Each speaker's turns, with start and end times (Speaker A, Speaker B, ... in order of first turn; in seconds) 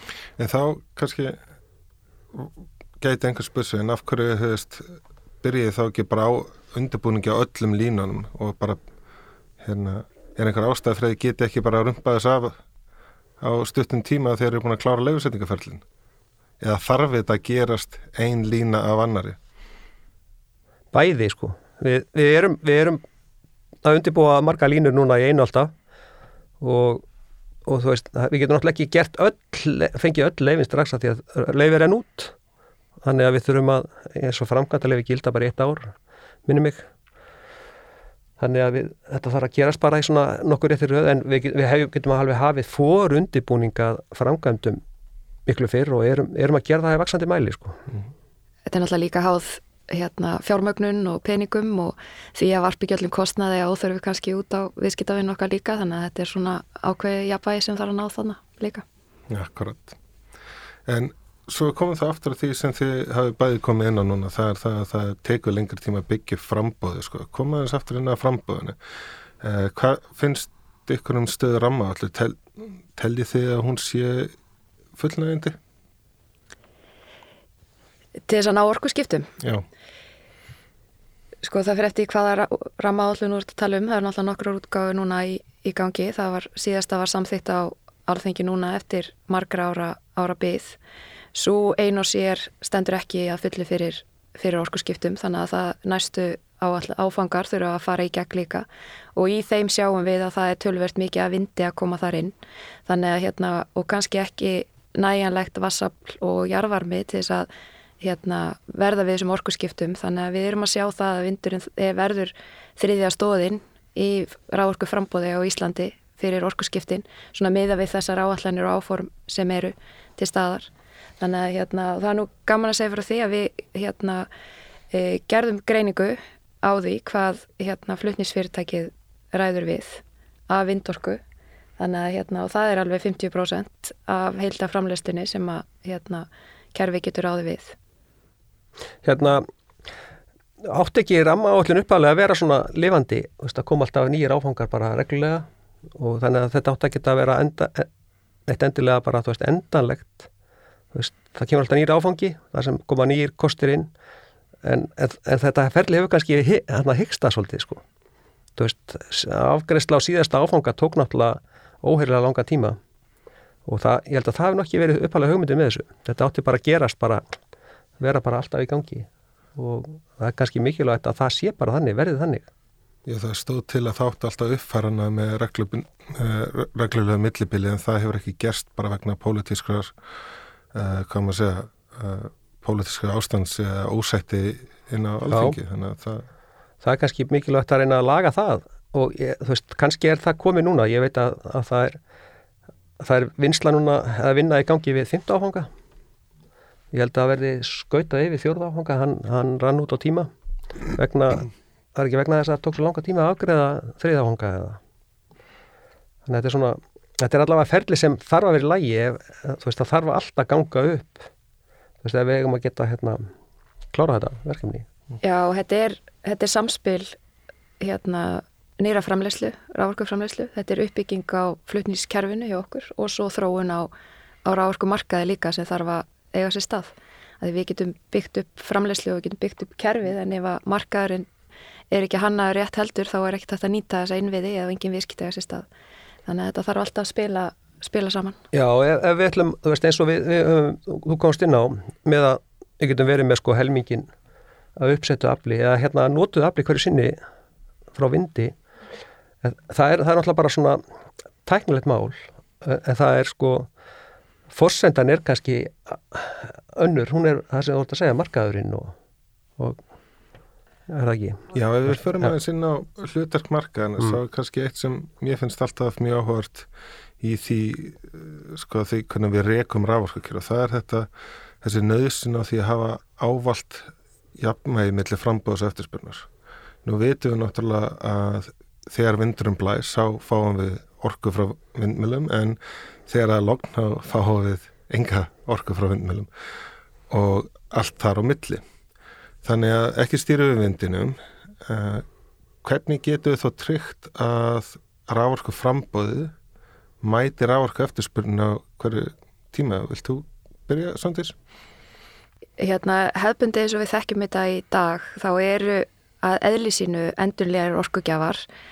Speaker A: 0.4-1.4, 2.3-8.8, 9.6-12.6, 13.4-15.8, 16.6-19.4, 59.3-60.0, 60.9-68.8, 69.4-74.3, 75.0-75.6, 173.1-179.9, 180.7-186.2, 261.5-266.7, 267.2-271.1, 271.6-276.3, 276.9-286.3, 287.1-288.6, 289.4-292.0, 292.6-296.3, 297.0-301.4
Speaker B: 20.9-23.0, 23.8-25.7, 26.6-27.0, 27.6-32.4, 33.0-35.9, 36.5-36.9, 38.4-44.8, 45.5-47.8, 139.0-139.5, 140.6-147.9, 148.5-150.3, 150.9-153.9, 154.6-157.8, 158.6-162.8, 163.7-167.2, 168.0-172.5, 185.3-185.6, 186.8-192.0, 193.0-195.7, 196.9-200.3, 200.9-204.8, 206.2-211.3, 212.0-213.3, 213.9-214.9, 238.5-244.1, 244.8-247.2, 247.9-248.5, 249.4-250.8, 251.4-253.7, 254.5-258.9, 260.9-261.4
Speaker C: 48.7-58.9, 78.3-79.3, 81.4-90.8, 91.3-107.5, 108.0-124.3, 124.9-131.2, 131.8-137.8, 215.2-217.2, 217.8-223.9, 224.4-231.3, 231.9-235.7, 236.2-238.4, 302.6-308.4